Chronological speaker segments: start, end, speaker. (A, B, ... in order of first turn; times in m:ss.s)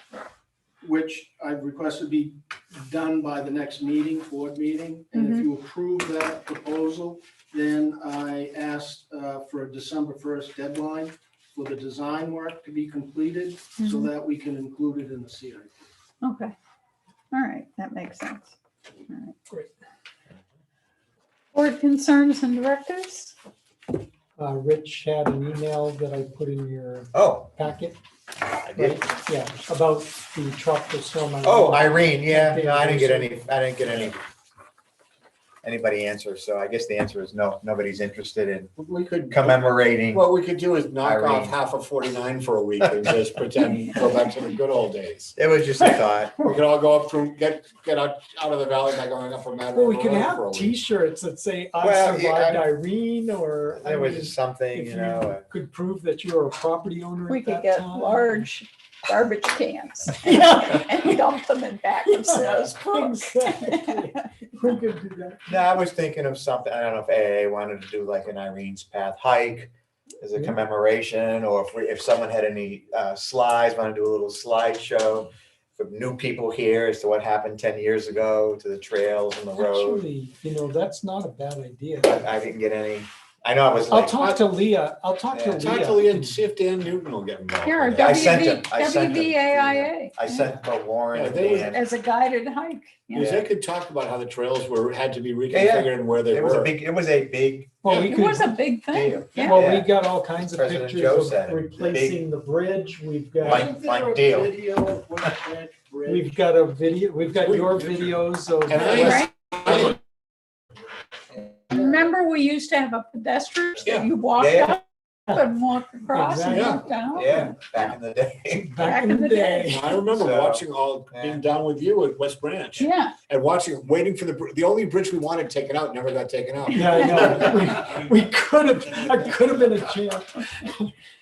0:00.8-0:15.8 A
0:05.1-0:05.5 B
0:13.8-0:14.1 B
0:16.2-0:16.5 B
0:17.3-0:18.5 B
0:19.1-0:19.3 B
0:21.5-0:23.3 B
0:24.4-0:28.0 C
0:27.1-0:27.5 D
0:28.6-0:29.0 D
0:28.7-0:33.4 C
0:31.4-0:34.2 D
0:35.6-0:38.7 D
0:38.8-0:45.3 E
0:39.3-0:40.2 D
0:41.0-0:41.5 D
0:45.4-0:46.5 D
0:46.4-0:50.8 E
0:49.7-0:58.5 C
0:51.8-0:52.7 D
0:53.7-0:55.4 D
0:57.3-1:04.2 B
1:00.2-1:01.0 C
1:02.1-1:05.6 C
1:05.5-1:20.0 D
1:19.6-1:22.3 C
1:22.0-1:24.4 D
1:23.9-1:26.4 C
1:25.3-1:25.7 D
1:25.6-1:28.2 E
1:27.6-1:30.5 B
1:28.0-1:31.8 D
1:31.1-1:31.8 E
1:31.6-1:33.4 B
1:33.1-1:36.7 E
1:33.2-1:33.4 D
1:35.5-1:37.8 D
1:37.8-1:38.6 C
1:37.9-1:39.6 B
1:38.9-1:42.2 D
1:39.1-1:43.7 C
1:43.4-1:44.5 D
1:43.4-1:46.3 A
1:46.0-1:49.3 C
1:47.4-1:50.0 E
1:48.8-1:49.3 B
1:51.7-1:57.9 B
1:54.4-1:54.8 D
1:56.1-1:56.8 C
1:56.4-1:56.9 E
1:57.1-1:58.8 D
1:58.6-1:59.9 C
1:58.8-2:00.0 B
1:59.7-2:07.5 E
2:00.1-2:01.4 D
2:02.8-2:03.1 B
2:06.7-2:10.9 C